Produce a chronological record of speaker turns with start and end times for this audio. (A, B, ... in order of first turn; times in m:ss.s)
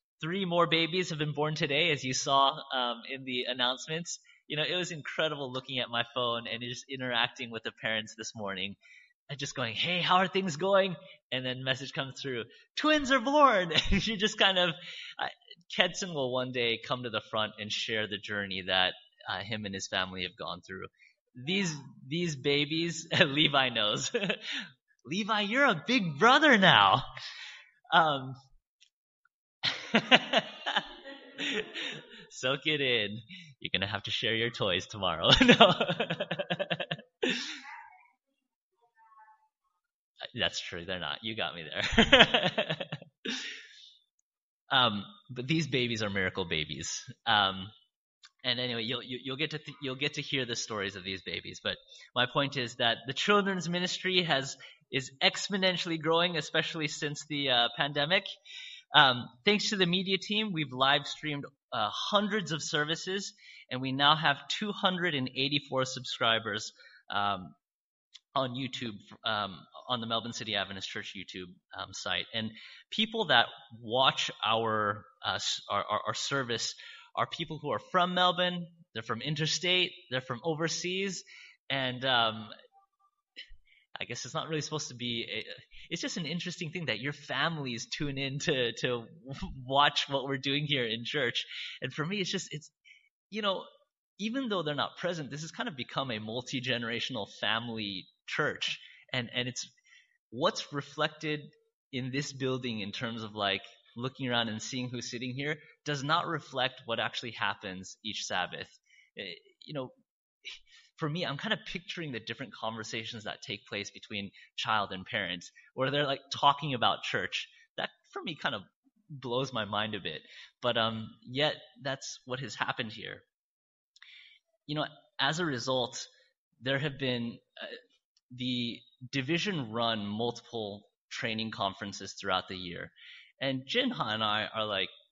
0:00.2-0:08.8 A
0:09.3-0:27.1 A
0:27.9-0:28.4 A
0:29.6-0:37.5 A
0:40.4-0:43.5 A
0:44.7-0:47.7 A
0:48.4-0:58.2 A
0:58.9-1:07.6 A
1:08.4-1:22.5 A
1:24.0-1:32.7 A
1:33.3-1:33.7 A
1:34.2-1:39.7 A
1:40.3-1:49.9 A
1:50.4-2:03.2 A
2:04.7-2:06.1 A
2:06.6-2:07.8 A
2:08.3-2:14.9 A